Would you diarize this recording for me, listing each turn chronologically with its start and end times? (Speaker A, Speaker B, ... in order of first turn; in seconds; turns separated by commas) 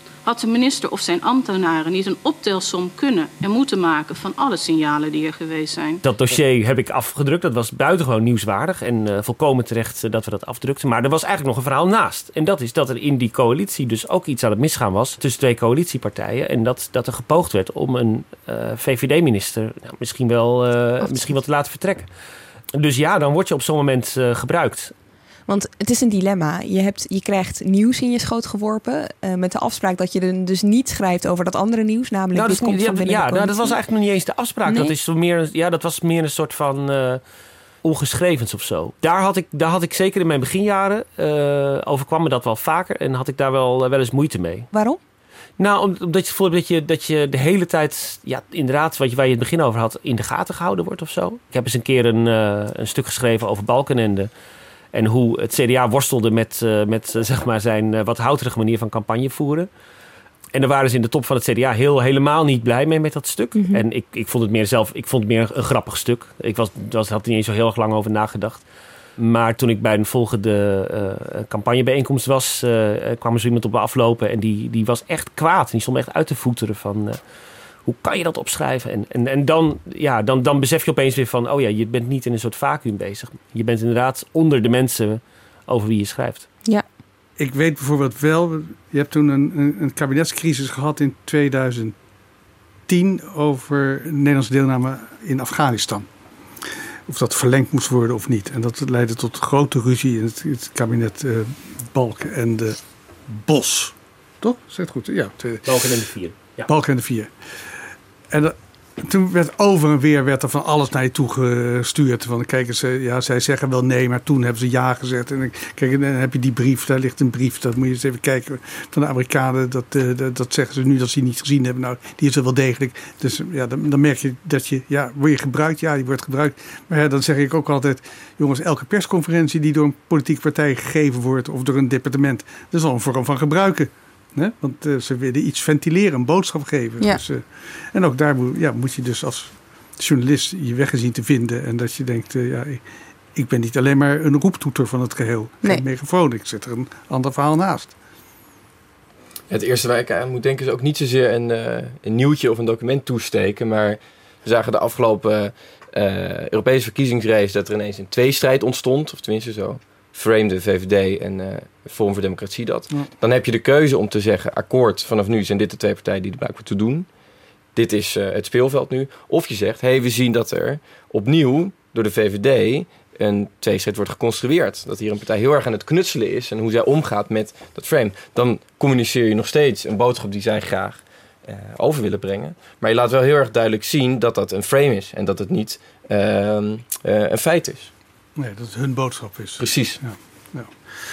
Speaker A: 0.2-6.0, Speaker B: 6.0-22.1, Speaker B: 22.8-24.9, Speaker C: 25.5-33.8, Speaker B: 32.3-37.2, Speaker C: 34.7-34.9, Speaker B: 37.8-44.7, Speaker C: 44.7-45.0, Speaker B: 45.6-54.3, Speaker B: 54.9-59.7, Speaker B: 60.5-68.6, Speaker C: 63.5-63.8, Speaker B: 69.2-77.2, Speaker B: 77.8-86.5, Speaker D: 87.4-91.9, Speaker D: 92.9-96.0, Speaker D: 97.1-102.8, Speaker D: 103.3-106.0, Speaker B: 105.7-106.7, Speaker D: 106.7-107.3, Speaker D: 108.3-142.8, Speaker D: 143.3-147.9, Speaker E: 149.5-167.1, Speaker E: 167.7-187.9, Speaker D: 188.4-190.7, Speaker E: 189.6-190.0